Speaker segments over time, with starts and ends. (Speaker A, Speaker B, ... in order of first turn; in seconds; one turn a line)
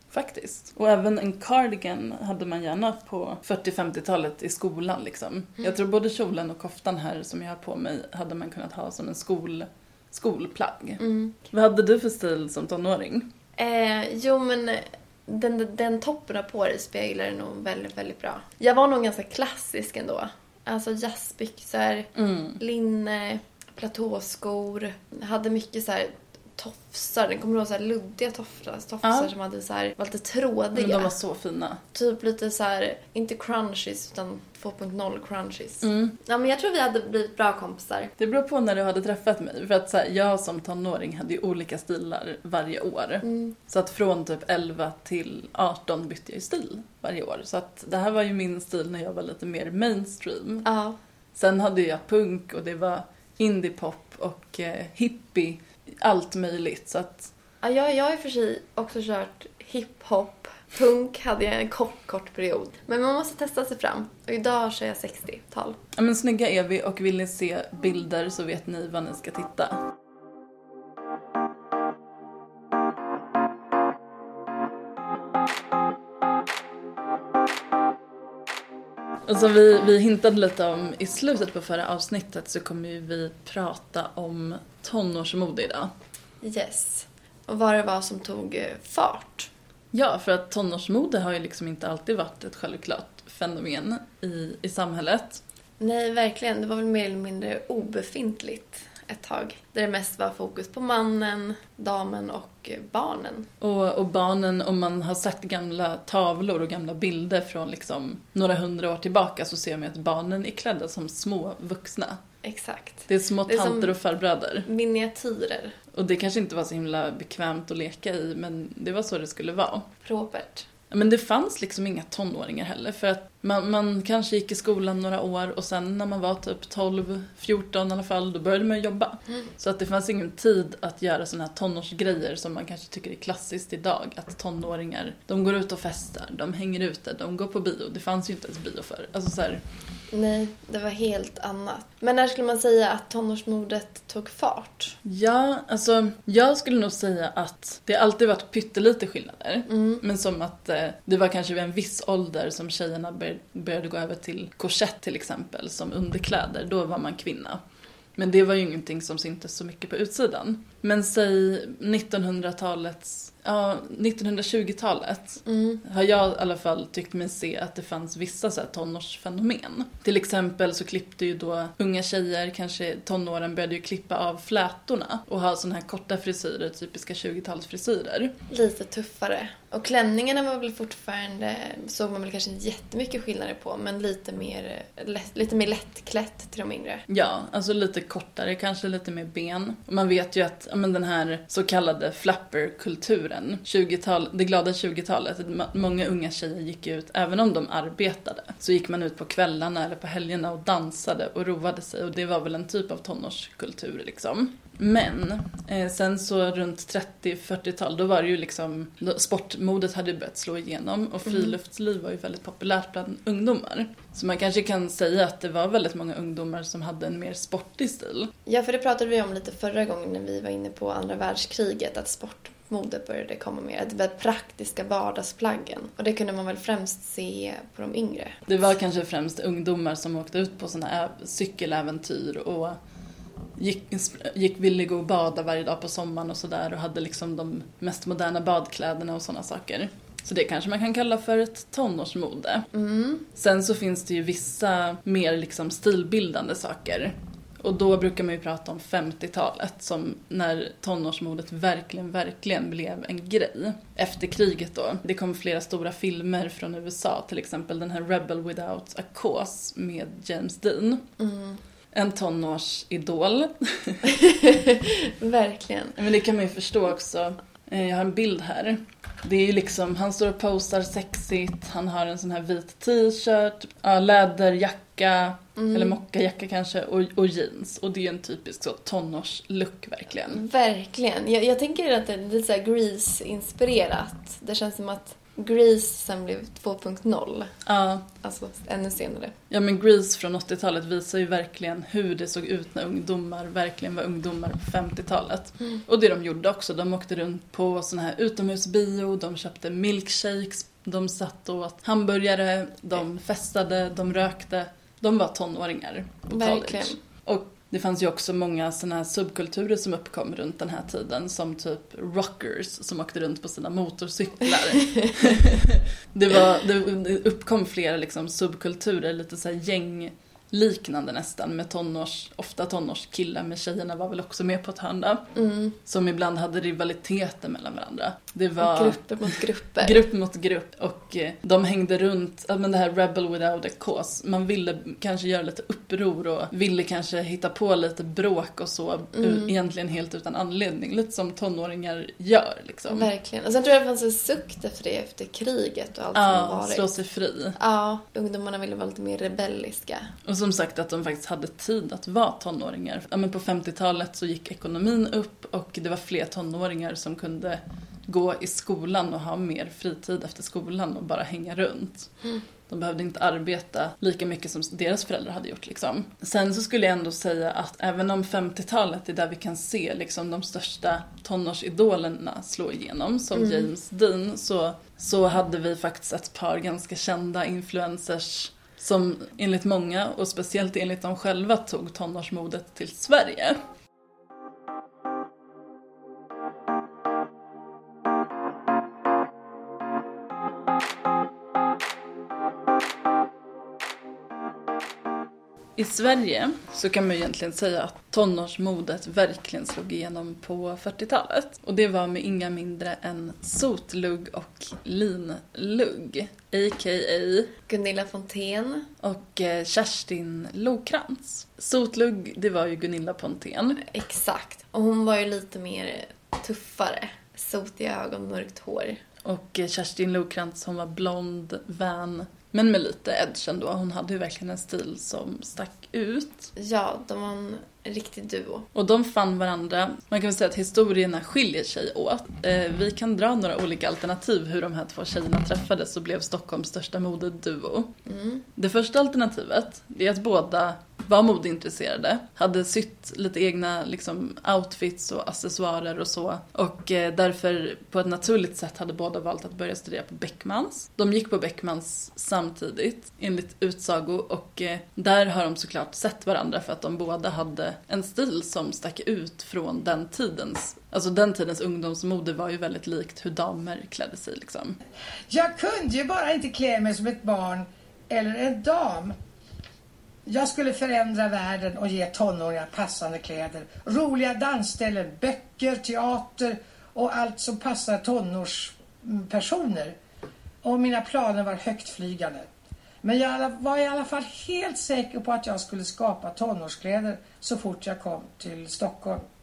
Speaker A: 0.1-11.0
Speaker B: 11.0-11.4
Speaker A: 11.5-13.3
Speaker B: 13.6-31.1
Speaker A: 22.2-22.6
Speaker A: 29.0-29.3
Speaker A: 30.8-31.8
Speaker B: 31.9-38.1
Speaker A: 35.8-36.2
Speaker A: 38.2-50.7
Speaker B: 43.2-43.5
Speaker B: 50.6-51.0
Speaker A: 51.3-57.3
Speaker B: 57.6-65.8
Speaker A: 66.0-69.8
Speaker A: 79.3-85.9
Speaker B: 86.4-89.5
Speaker A: 89.9-95.4
Speaker B: 95.8-103.5
Speaker A: 103.6-112.2
Speaker B: 112.4-114.0
Speaker A: 113.1-114.7
Speaker B: 114.7-115.8
Speaker A: 115.9-119.9
Speaker B: 120.0-120.7
Speaker A: 120.9-139.6
Speaker B: 140.1-144.9
Speaker A: 145.1-157.6
Speaker B: 149.7-150.0
Speaker A: 158.2-178.3
Speaker B: 165.5-165.8
Speaker B: 178.5-187.0
Speaker A: 187.1-218.3
Speaker B: 211.2-211.5
Speaker B: 218.5-228.4
Speaker A: 228.5-232.8
Speaker A: 233.6-242.7
Speaker B: 242.7-243.3
Speaker A: 243.3-261.0
Speaker B: 261.2-261.6
Speaker A: 261.9-264.0
Speaker B: 264.1-265.9
Speaker A: 266.0-280.4
Speaker B: 275.6-276.0
Speaker B: 280.3-287.5
Speaker A: 287.7-288.1
Speaker B: 288.2-289.3
Speaker A: 289.5-325.2
Speaker B: 306.3-307.0
Speaker B: 314.8-315.4
Speaker B: 325.4-325.8
Speaker A: 325.9-329.3
Speaker B: 328.6-330.1
Speaker A: 329.8-343.1
Speaker B: 339.2-339.5
Speaker B: 342.9-346.9
Speaker A: 346.1-347.6
Speaker B: 347.6-350.1
Speaker A: 350.3-362.1
Speaker A: 362.7-383.6
Speaker B: 373.4-373.7
Speaker A: 395.8-407.5
Speaker B: 407.7-408.9
Speaker A: 409.0-413.8
Speaker B: 413.8-419.0
Speaker A: 419.2-426.5
Speaker B: 426.6-428.7
Speaker A: 428.7-437.9
Speaker B: 438.1-438.4
Speaker A: 438.6-464.8
Speaker C: 465.3-469.2
Speaker C: 470.3-480.0
Speaker C: 480.6-482.5
Speaker C: 483.0-489.2